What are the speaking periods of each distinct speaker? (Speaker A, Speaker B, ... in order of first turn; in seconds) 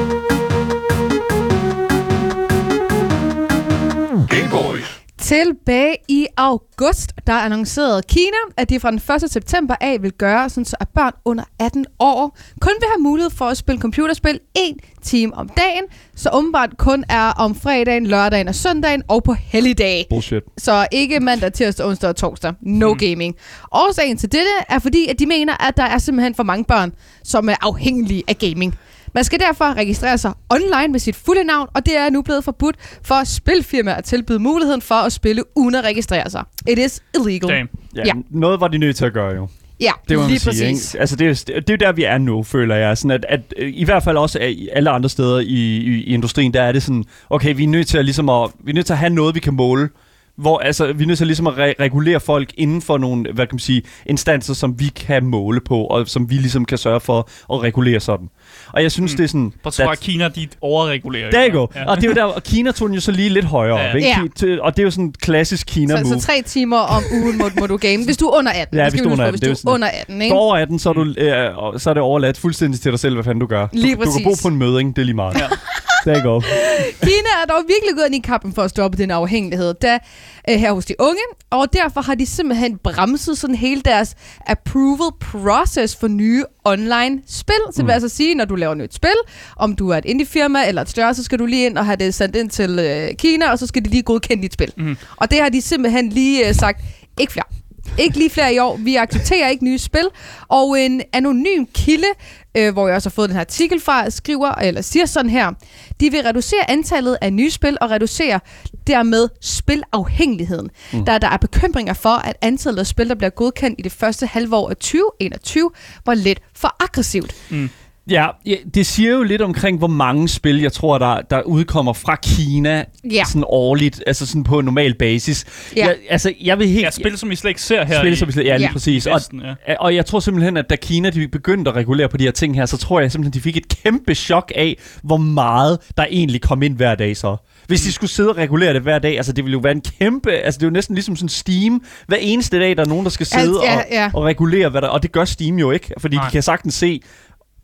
Speaker A: 5.2-38.2, 39.8-40.9, 64.0-64.3, 65.9-70.4, 73.7-74.5, 75.4-117.3, 123.0-123.3, 128.5-128.8, 143.3-144.2
Speaker B: 20.1-20.5, 37.9-39.5, 40.1-60.0, 61.3-66.3, 67.0-67.3, 68.7-75.4, 76.0-77.1, 118.1-127.1, 127.9-147.0
Speaker C: 37.5-37.7, 59.0-62.2, 63.7-64.0, 126.8-129.6